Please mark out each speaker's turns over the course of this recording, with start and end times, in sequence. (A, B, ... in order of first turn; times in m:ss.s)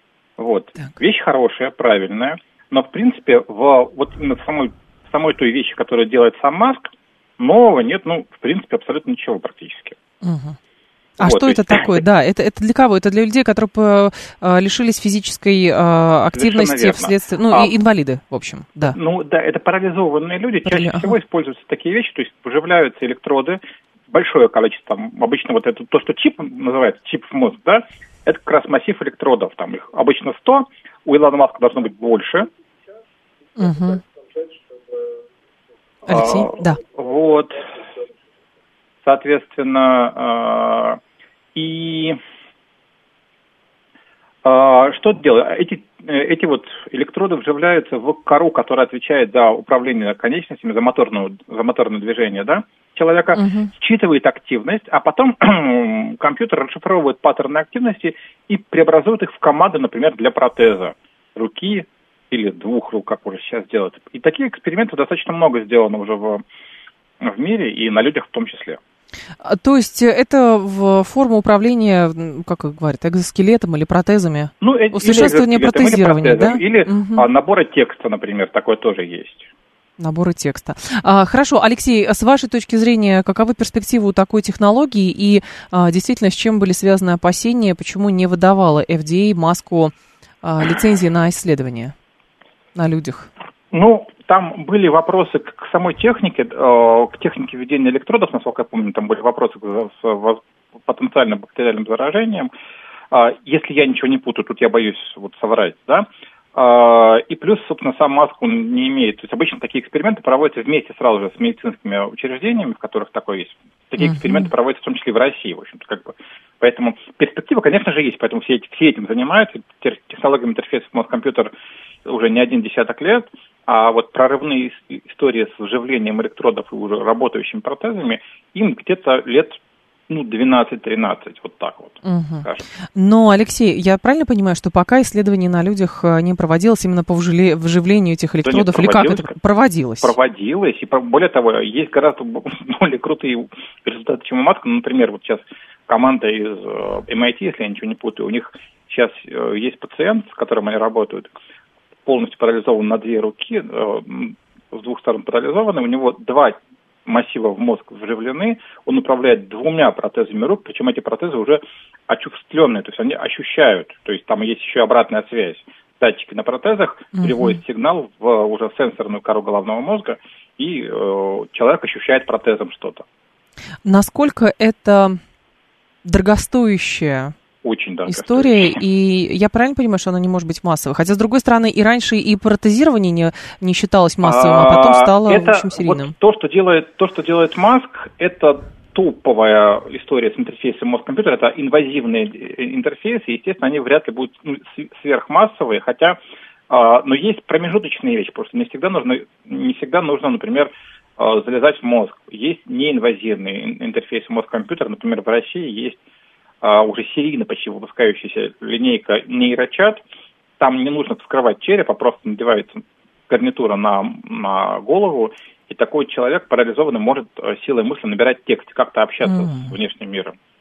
0:00.4-0:10.0 A
0:10.2-0:10.6 B
0:11.2-0:19.0 B
0:11.2-0:12.0 A
0:16.3-0:17.7 A
0:18.9-0:23.6 A
0:20.6-0:21.2 B
0:24.1-0:32.5 A
0:33.6-0:34.0 B
0:36.0-0:36.8 B
0:36.1-0:37.6 A
0:39.0-0:41.0 A
0:41.5-0:42.2 A
0:44.4-1:06.4 A
0:53.3-0:53.7 B
1:07.2-1:08.8 A
1:09.4-1:17.3 B
1:14.6-1:19.5 A
1:20.0-1:31.9 B
1:32.7-1:33.3 B
1:33.7-1:42.5 A
1:43.1-2:01.5 A
1:54.0-1:54.5 B
2:02.0-2:12.6 A
2:12.0-2:20.1 B
2:18.4-2:19.3 A
2:20.0-2:31.3 A
2:32.0-2:53.0 A
2:47.1-2:47.6 B
2:53.8-2:55.2 B
2:56.0-2:57.3 B
2:57.6-2:58.8 A
2:58.0-3:06.1 B
3:04.2-3:16.2 A
3:16.7-3:26.0 A
3:26.6-3:30.0 A
3:30.6-3:40.4 A
3:39.2-3:39.7 B